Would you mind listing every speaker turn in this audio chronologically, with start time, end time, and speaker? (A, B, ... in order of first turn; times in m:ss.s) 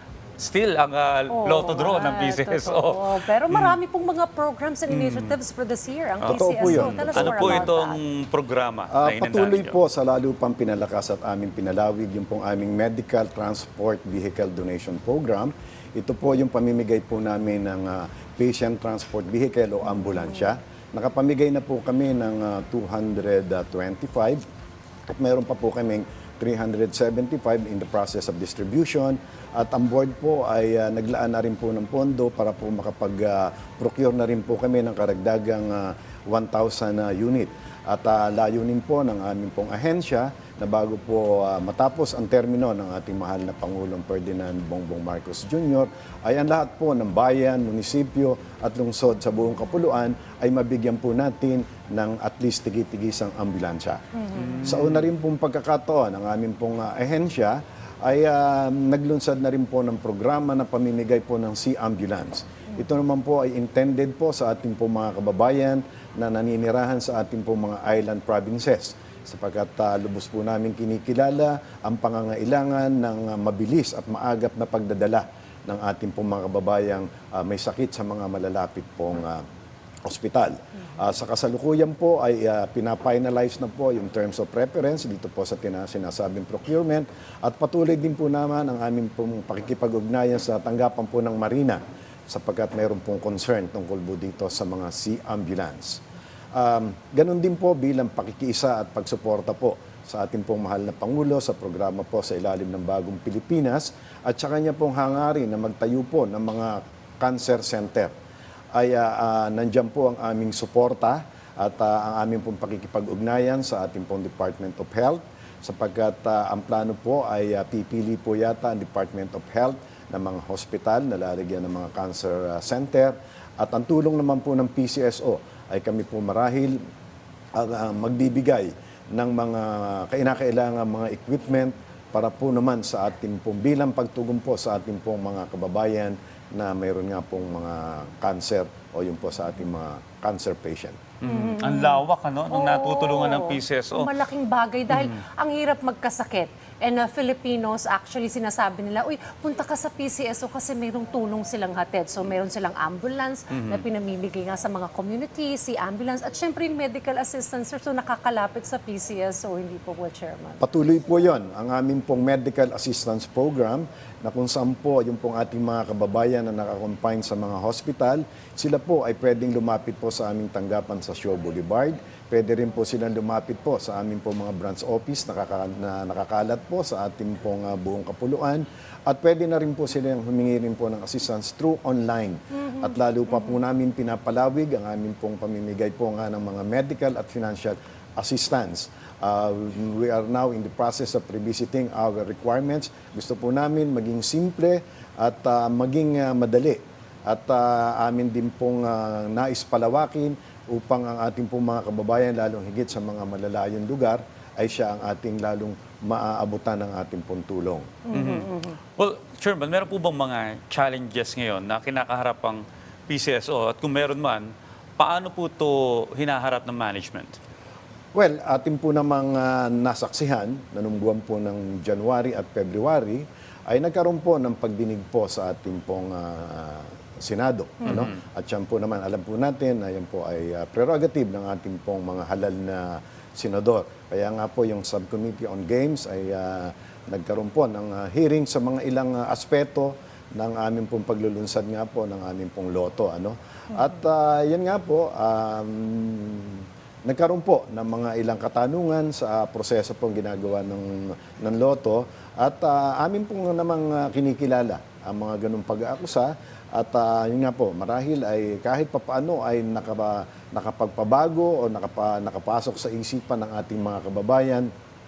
0:00.4-0:03.8 A
0:01.3-0:08.0 B
0:04.9-0:05.3 A
0:06.2-0:07.7 C
0:06.2-0:09.8 A
0:08.9-0:24.4 C
0:25.1-0:54.0 C
0:54.2-0:54.7 B
0:54.4-0:55.1 A
0:54.6-1:19.4 C
1:20.0-1:36.0 C
1:36.5-1:48.1 C
1:48.7-2:06.8 C
2:07.5-2:21.0 C
2:21.2-2:24.1 A
2:21.3-2:40.6 B
2:33.5-2:33.8 A
2:40.6-3:28.0 C
3:28.1-3:28.8 B
3:28.1-3:37.4 A
3:38.2-4:24.7 C